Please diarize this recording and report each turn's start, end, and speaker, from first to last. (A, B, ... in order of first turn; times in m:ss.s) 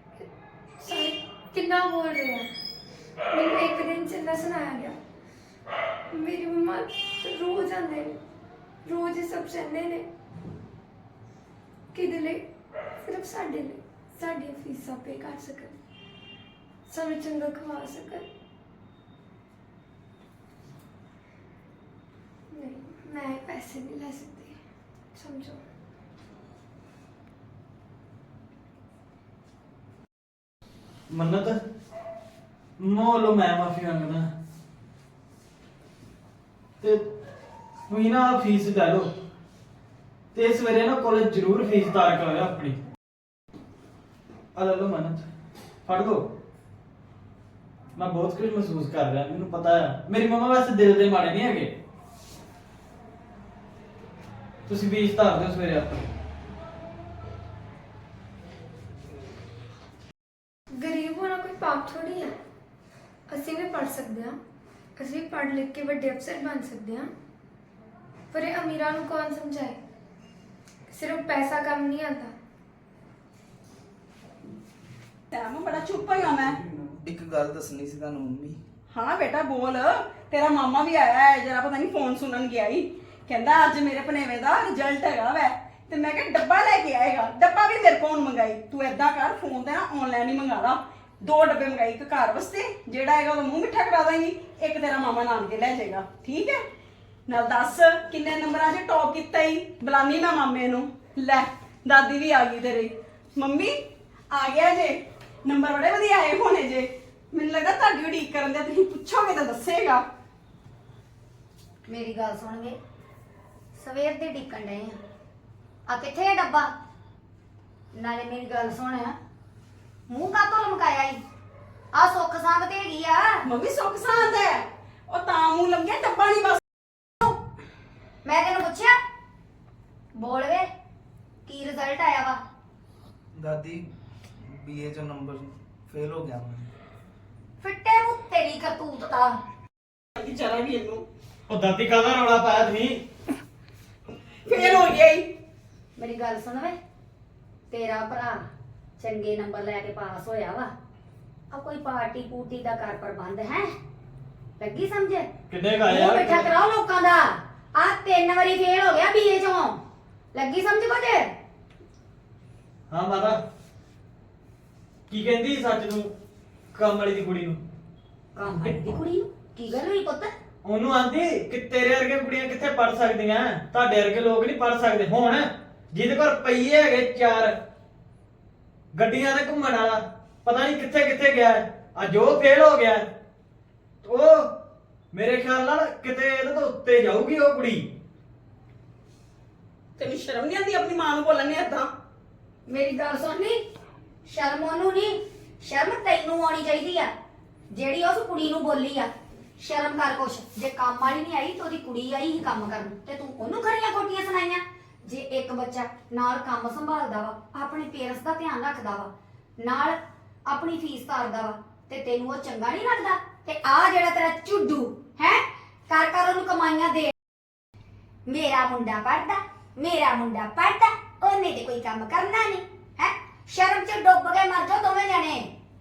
0:00.8-0:02.4 A
0:03.3-0:04.9 A
0:06.1-0:08.1 A
0:08.8-0:10.0 A
0:11.9-0:12.4 A
0:13.0-0:15.7 A
0:16.9-0:18.2 A
0:22.5-0:24.5 A
0:25.1-0:25.6 A
0:31.1-0:31.6 B
0:32.8-0:34.2 B
0:37.9-0:39.1 B
0:40.3-0:42.8 B
0:44.5-0:45.2 B
0:45.8-0:46.2 B
0:48.0-0:51.7 B
0:54.7-0:56.1 B
1:00.8-1:02.3 A
1:03.3-1:04.3 A
1:05.0-1:07.1 A
1:08.3-1:09.8 A
1:10.9-1:12.3 A
1:15.3-1:16.6 C
1:16.9-1:18.6 D
1:18.9-1:36.6 C
1:37.3-1:43.8 C
1:44.3-1:50.0 C
1:51.9-1:52.8 E
1:53.7-1:55.0 E
1:55.9-1:56.7 E
1:57.9-1:59.2 E
2:00.1-2:01.2 E
2:01.9-2:03.4 E
2:03.4-2:06.6 C
2:08.2-2:09.0 E
2:10.1-2:10.7 E
2:11.4-2:12.4 E
2:13.3-2:13.9 D
2:14.4-2:16.7 D
2:17.6-2:19.4 E
2:20.2-2:21.0 C
2:21.5-2:23.0 B
2:24.4-2:25.3 C
2:24.5-2:24.8 E
2:26.0-2:26.8 E
2:27.7-2:28.4 E
2:29.0-2:30.7 E
2:31.5-2:33.7 E
2:34.6-2:35.3 E
2:35.5-2:36.5 B
2:35.9-2:39.8 E
2:40.3-2:41.3 E
2:42.9-2:43.4 B
2:45.1-2:46.1 B
2:46.7-2:47.6 B
2:48.4-2:50.3 E
2:50.6-2:57.5 B
2:58.9-3:03.0 B
3:04.0-3:04.5 B
3:05.1-3:07.8 B
3:10.0-3:11.9 C
3:12.7-3:13.6 E
3:14.2-3:17.1 E
3:17.7-3:37.1 E
3:38.3-3:45.5 E